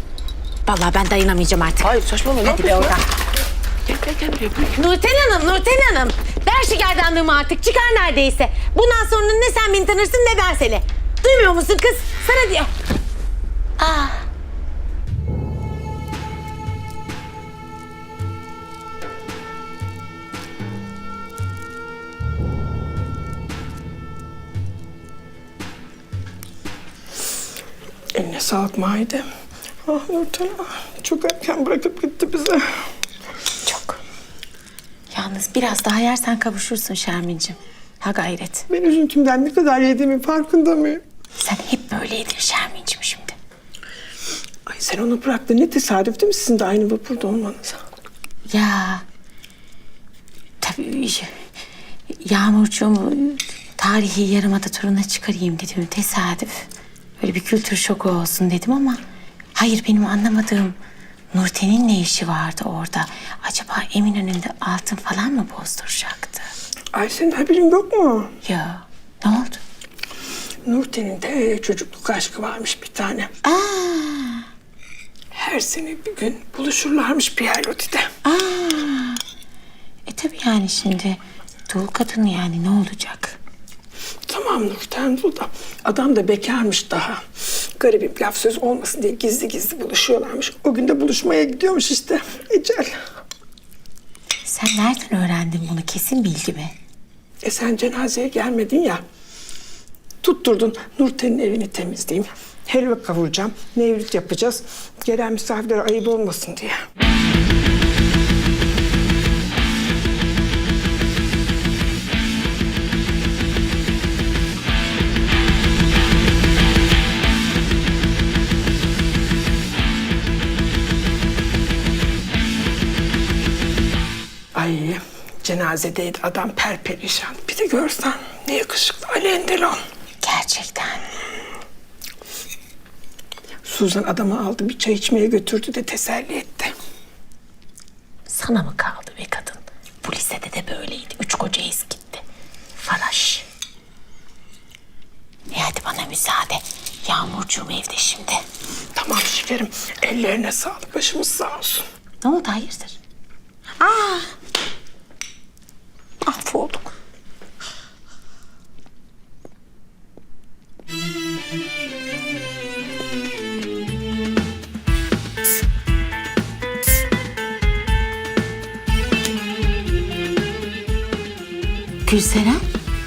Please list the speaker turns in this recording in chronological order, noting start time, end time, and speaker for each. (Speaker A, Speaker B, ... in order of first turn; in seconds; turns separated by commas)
Speaker A: 0.7-1.9, Speaker B: 1.8-3.0, Speaker A: 2.4-3.1, Speaker B: 3.9-4.8, Speaker A: 4.7-12.7, Speaker A: 13.8-14.3, Speaker C: 28.1-29.2, Speaker C: 29.9-32.7, Speaker A: 33.6-34.0, Speaker A: 35.1-38.6, Speaker C: 38.7-41.0, Speaker A: 41.4-43.3, Speaker C: 44.7-47.8, Speaker A: 48.5-49.0, Speaker A: 50.6-51.3, Speaker A: 52.1-56.7, Speaker A: 57.2-59.0, Speaker A: 59.5-60.8, Speaker A: 61.3-66.5, Speaker C: 66.9-68.3, Speaker A: 68.4-69.6, Speaker C: 70.6-73.3, Speaker A: 73.4-74.5, Speaker C: 75.3-78.1, Speaker A: 78.2-79.2, Speaker A: 80.0-83.4, Speaker C: 84.3-92.9, Speaker A: 94.4-96.7, Speaker C: 97.4-99.0, Speaker C: 100.2-106.8, Speaker C: 124.5-129.8, Speaker A: 130.2-131.0, Speaker C: 133.6-136.7, Speaker A: 138.3-142.2, Speaker A: 142.8-143.4, Speaker A: 145.5-148.4, Speaker C: 148.9-151.8, Speaker A: 152.2-153.0, Speaker A: 153.8-154.3, Speaker A: 156.2-156.9, Speaker A: 172.0-172.6